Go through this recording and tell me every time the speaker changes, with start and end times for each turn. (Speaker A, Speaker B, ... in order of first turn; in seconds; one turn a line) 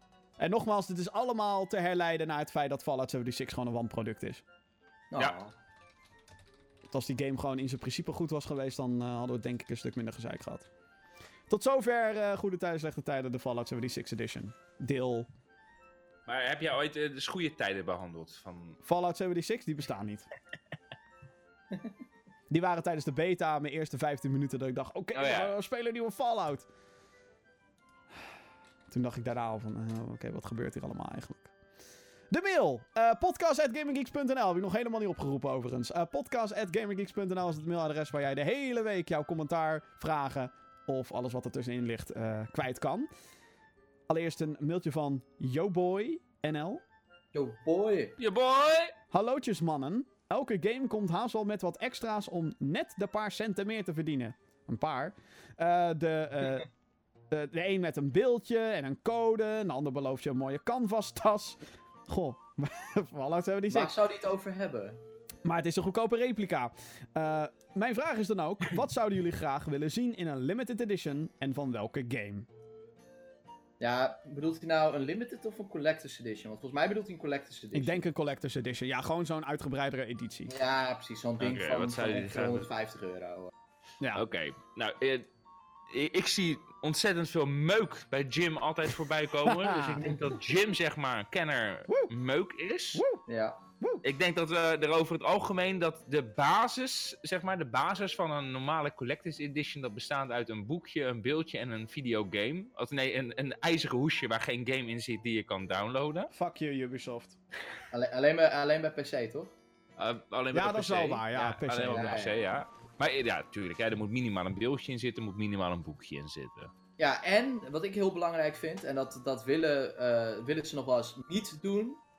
Speaker A: 0.4-4.4
Speaker B: 5.1-5.5
Speaker A: 6.9-10.7
Speaker A: 11.5-15.3
Speaker C: 16.3-18.8
Speaker A: 18.9-20.3
Speaker A: 22.5-26.7
Speaker C: 25.1-25.5
Speaker A: 28.9-31.5
Speaker A: 32.3-43.1
Speaker A: 44.1-46.8
Speaker B: 47.3-48.2
Speaker C: 48.2-48.9
Speaker A: 49.1-56.7
Speaker A: 57.3-63.9
Speaker B: 63.7-65.0
Speaker A: 65.5-72.5
Speaker B: 73.8-78.0
Speaker A: 77.7-80.5
Speaker B: 80.5-83.5
Speaker C: 81.4-82.7
Speaker C: 84.2-85.3
Speaker C: 85.9-93.1
Speaker A: 89.5-90.2
Speaker A: 92.9-93.2
Speaker B: 93.3-93.6
Speaker C: 94.0-106.3
Speaker A: 106.3-107.4
Speaker B: 107.9-109.5
Speaker C: 110.0-116.7
Speaker A: 110.5-112.2
Speaker B: 111.9-112.4
Speaker B: 117.0-122.0